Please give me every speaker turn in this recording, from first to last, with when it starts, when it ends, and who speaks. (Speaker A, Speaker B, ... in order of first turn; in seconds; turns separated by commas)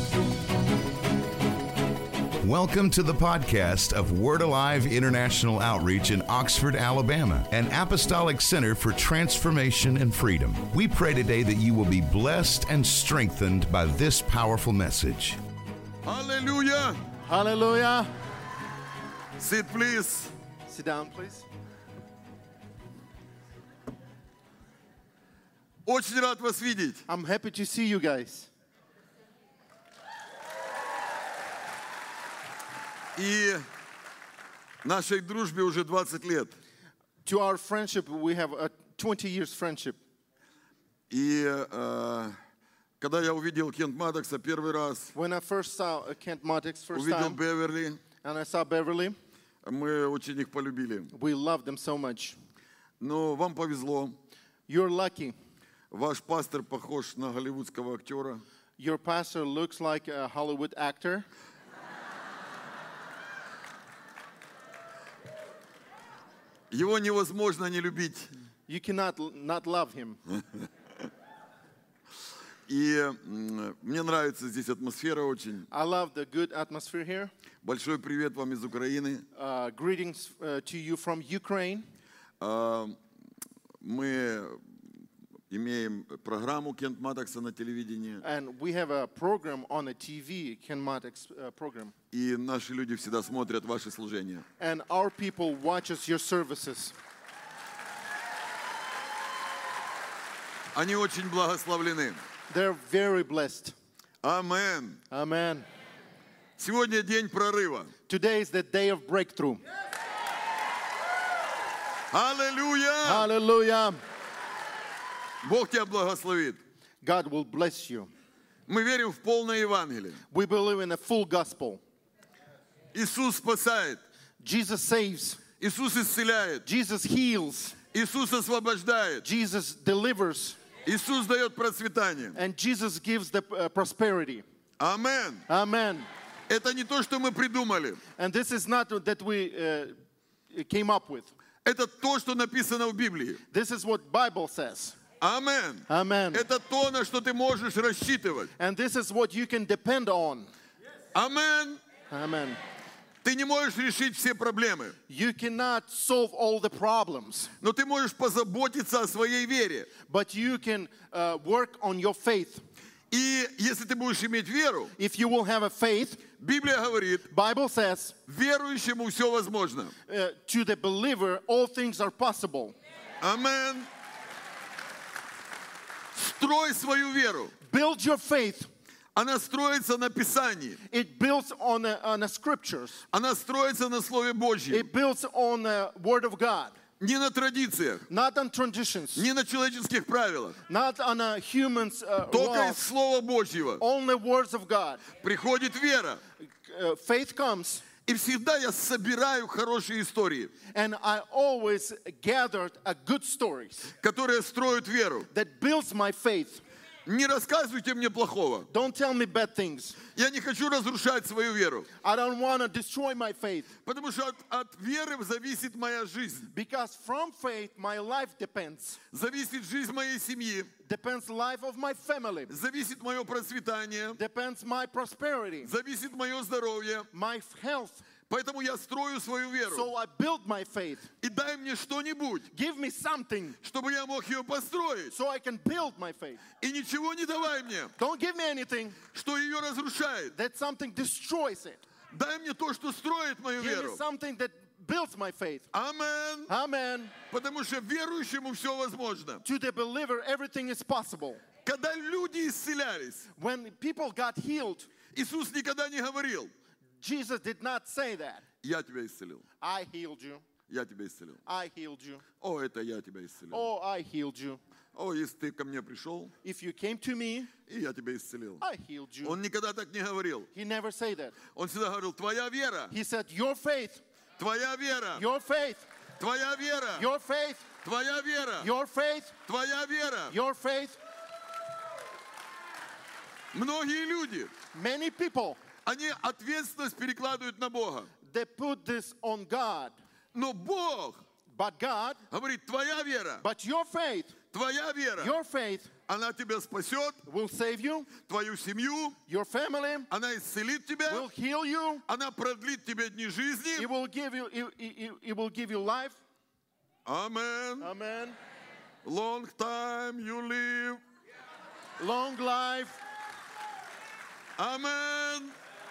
Speaker A: 2.4-15.4, Speaker B: 16.0-17.0, Speaker C: 17.2-18.1, Speaker B: 19.4-20.3, Speaker C: 20.7-21.5, Speaker B: 25.9-27.1, Speaker C: 27.1-28.5, Speaker B: 33.2-33.7, Speaker B: 34.8-36.5, Speaker C: 37.2-40.0, Speaker B: 41.1-42.4, Speaker B: 43.0-45.1, Speaker C: 45.1-47.4, Speaker B: 46.9-48.0, Speaker C: 48.2-49.2, Speaker B: 49.6-51.1, Speaker C: 51.1-52.4, Speaker B: 53.0-54.2, Speaker C: 54.7-55.4, Speaker B: 55.9-58.4, Speaker C: 58.8-61.3, Speaker B: 66.7-68.3, Speaker C: 68.7-70.2, Speaker B: 72.7-75.7, Speaker C: 75.7-77.3, Speaker B: 77.6-79.3, Speaker C: 79.3-81.9, Speaker B: 82.4-83.0, Speaker B: 83.8-84.6, Speaker B: 85.5-88.2, Speaker C: 88.2-91.9, Speaker B: 92.1-94.5, Speaker C: 94.6-97.0, Speaker B: 100.7-102.2, Speaker C: 102.5-103.8, Speaker B: 104.2-105.0, Speaker C: 105.1-105.7, Speaker B: 106.6-107.9, Speaker C: 108.1-109.6, Speaker B: 112.1-113.3, Speaker C: 113.0-114.0, Speaker B: 115.4-116.6, Speaker C: 117.0-118.1, Speaker B: 118.7-120.2, Speaker C: 120.3-121.8, Speaker B: 122.9-124.0, Speaker C: 124.4-125.4, Speaker B: 125.6-126.7, Speaker C: 126.7-127.8, Speaker B: 127.9-129.2, Speaker C: 129.2-130.6, Speaker B: 130.8-132.4, Speaker C: 132.3-134.4, Speaker B: 134.8-135.5, Speaker C: 135.5-136.1, Speaker B: 136.5-138.0, Speaker C: 138.2-140.0, Speaker C: 140.5-141.3, Speaker B: 141.7-143.4, Speaker C: 143.5-145.0, Speaker B: 145.2-148.5, Speaker C: 145.9-146.4, Speaker C: 148.6-150.5, Speaker B: 151.1-151.8, Speaker C: 152.1-152.6, Speaker B: 153.2-155.0, Speaker C: 155.1-157.5, Speaker B: 157.6-159.9, Speaker C: 160.1-162.6, Speaker B: 163.1-164.9, Speaker C: 165.0-166.3, Speaker B: 166.4-167.3, Speaker C: 167.3-168.2, Speaker B: 168.3-169.9, Speaker C: 170.1-172.8, Speaker B: 173.2-173.9, Speaker B: 176.1-177.5, Speaker C: 177.6-178.7, Speaker B: 179.2-180.8, Speaker C: 180.9-183.1, Speaker B: 183.1-184.9, Speaker C: 184.7-186.8, Speaker B: 187.0-188.1, Speaker C: 188.1-189.3, Speaker B: 189.2-190.6, Speaker C: 190.7-192.8, Speaker B: 192.3-193.8, Speaker C: 193.8-195.1, Speaker B: 195.2-196.2, Speaker C: 196.4-197.8, Speaker B: 198.1-200.5, Speaker C: 200.7-203.9, Speaker B: 204.0-205.3, Speaker C: 205.3-206.6, Speaker B: 207.1-208.7, Speaker C: 208.7-210.0, Speaker B: 210.1-211.9, Speaker C: 212.0-213.7, Speaker B: 213.8-216.5, Speaker C: 216.5-219.0, Speaker B: 219.1-220.7, Speaker C: 220.8-222.5, Speaker B: 222.5-224.2, Speaker C: 224.2-225.7, Speaker B: 225.6-227.1, Speaker C: 227.1-228.1, Speaker B: 228.3-229.9, Speaker C: 229.7-231.1, Speaker B: 231.2-232.5, Speaker C: 232.5-233.6, Speaker B: 233.6-235.2, Speaker C: 235.1-236.4, Speaker B: 236.6-237.9, Speaker C: 238.0-239.0, Speaker B: 239.1-240.3, Speaker C: 240.3-241.8, Speaker B: 242.1-244.0, Speaker C: 243.6-245.7, Speaker B: 245.7-246.5, Speaker C: 246.5-247.1, Speaker B: 247.3-249.4, Speaker C: 249.4-251.4, Speaker B: 251.6-253.3, Speaker C: 253.4-254.9, Speaker B: 255.1-256.5, Speaker C: 257.0-258.4, Speaker B: 258.6-259.4, Speaker C: 259.6-260.4, Speaker B: 260.7-261.4, Speaker C: 261.5-262.2, Speaker B: 262.4-263.7, Speaker C: 263.5-264.6, Speaker B: 264.9-266.3, Speaker C: 266.4-267.5, Speaker B: 267.7-268.6, Speaker C: 268.6-269.4, Speaker B: 269.2-270.5, Speaker C: 270.5-271.4, Speaker B: 271.5-272.9, Speaker C: 272.9-274.0, Speaker B: 274.4-275.2, Speaker C: 275.1-275.9, Speaker B: 276.2-277.1, Speaker C: 276.9-277.7, Speaker B: 277.8-278.7, Speaker C: 278.6-279.4, Speaker B: 279.5-280.4, Speaker C: 280.3-281.0, Speaker B: 283.5-284.5, Speaker C: 284.7-285.6, Speaker B: 285.9-288.1, Speaker C: 288.2-289.9, Speaker B: 290.3-291.2, Speaker C: 291.5-292.2, Speaker B: 292.3-293.4, Speaker C: 293.4-294.4, Speaker B: 294.5-295.4, Speaker C: 295.2-295.9, Speaker B: 296.1-297.2, Speaker C: 297.2-298.1, Speaker B: 298.2-299.2, Speaker C: 299.3-300.1, Speaker B: 300.1-301.3, Speaker C: 301.1-302.0, Speaker B: 302.1-303.9, Speaker C: 303.8-306.2, Speaker B: 307.1-307.9, Speaker C: 307.8-308.4, Speaker B: 309.0-311.0, Speaker C: 312.0-313.0, Speaker B: 314.6-315.6